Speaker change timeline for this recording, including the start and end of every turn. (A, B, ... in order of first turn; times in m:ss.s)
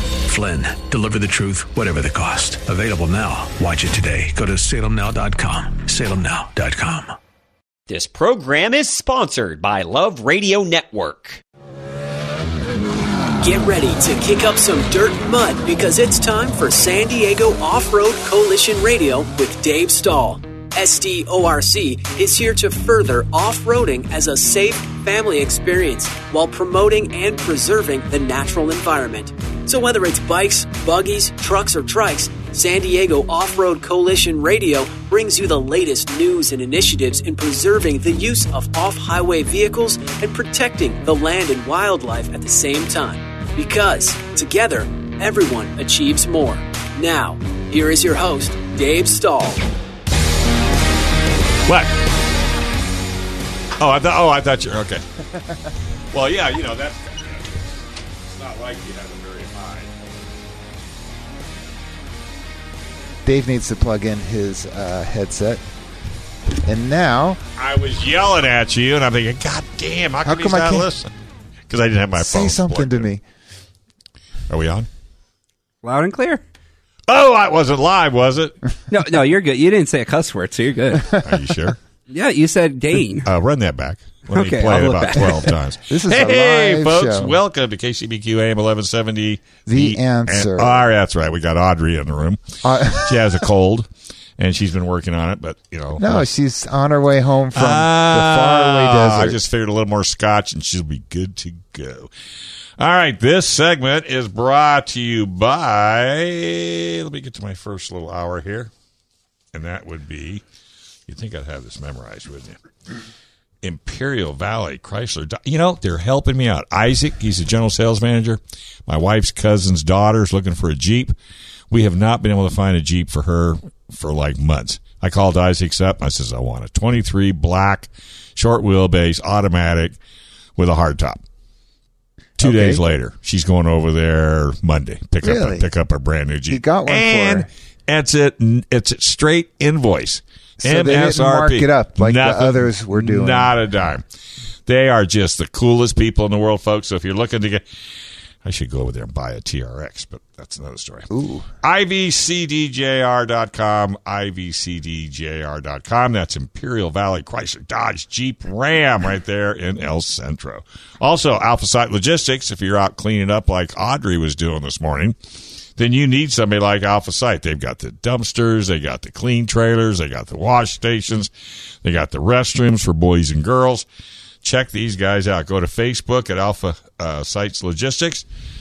0:00.2-0:07.2 A
0:07.9-0:11.4 B
0:13.4-0:49.6 C
0:51.7-0:51.9 D
0:53.8-0:55.0 D
0:56.1-0:57.7 D
0:58.2-0:59.9 D
1:03.2-1:05.6 E
1:06.6-1:07.4 E
1:07.6-1:11.1 D
1:10.2-1:10.9 E
1:11.7-1:13.1 D
1:12.2-1:13.2 E
1:14.5-1:14.9 D
1:15.8-1:16.4 F
1:17.1-1:18.5 D
1:18.9-1:21.2 F
1:21.2-1:21.8 D
1:22.1-1:23.3 F
1:23.2-1:33.8 D
1:24.3-1:25.5 F
1:25.2-1:27.4 E
1:29.6-1:30.8 E
1:32.6-1:33.4 E
1:34.4-1:36.2 D
1:36.0-1:39.4 E
1:37.5-1:42.1 D
1:42.8-1:48.7 D
1:49.5-1:50.4 D
1:51.1-1:52.6 D
1:53.6-2:01.1 D
2:01.7-2:10.0 D
2:10.6-2:11.2 D
2:12.4-2:24.0 D
2:12.4-2:12.8 E
2:15.2-2:15.7 E
2:16.5-2:17.5 E
2:20.6-2:23.5 E
2:24.6-2:27.6 D
2:28.4-2:31.1 D
2:31.1-2:31.5 E
2:31.6-2:45.2 D
2:45.8-2:51.3 D
2:51.8-2:53.8 D
2:54.4-2:58.2 D